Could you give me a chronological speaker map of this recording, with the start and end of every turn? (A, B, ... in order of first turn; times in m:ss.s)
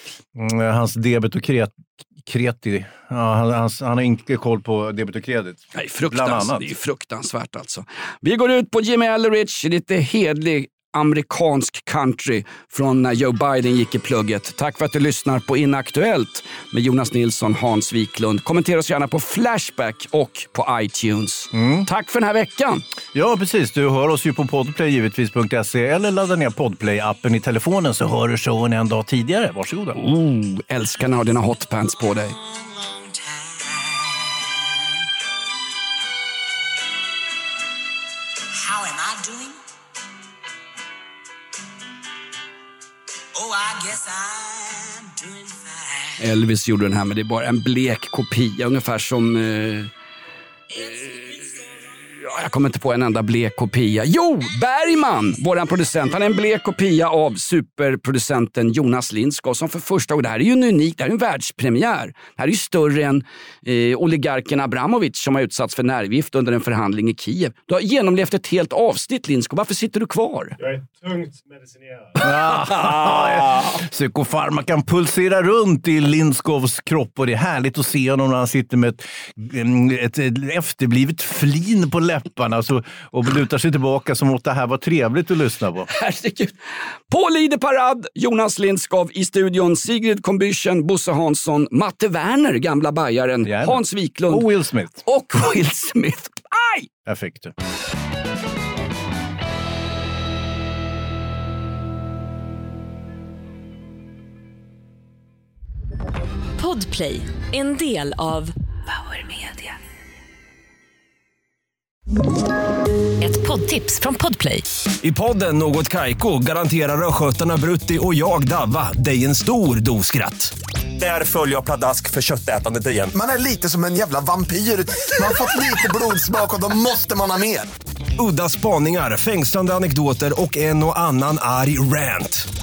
0:00.3-0:06.7 A
0:05.7-0:22.8 B
0:21.5-0:21.9 A
0:23.1-0:30.0 A
0:29.9-0:32.4 B
0:46.2-0:49.9 B
0:50.7-1:10.6 B
1:12.1-1:25.9 A
1:12.3-1:13.1 B
1:25.9-1:26.5 B
1:27.1-1:34.5 B
1:33.4-1:35.0 A
1:35.0-1:36.9 B
1:37.0-1:37.5 A
1:46.6-1:49.7 C
1:53.2-1:54.6 C
1:55.0-2:03.1 D
2:03.1-2:07.6 E
2:08.2-2:12.4 D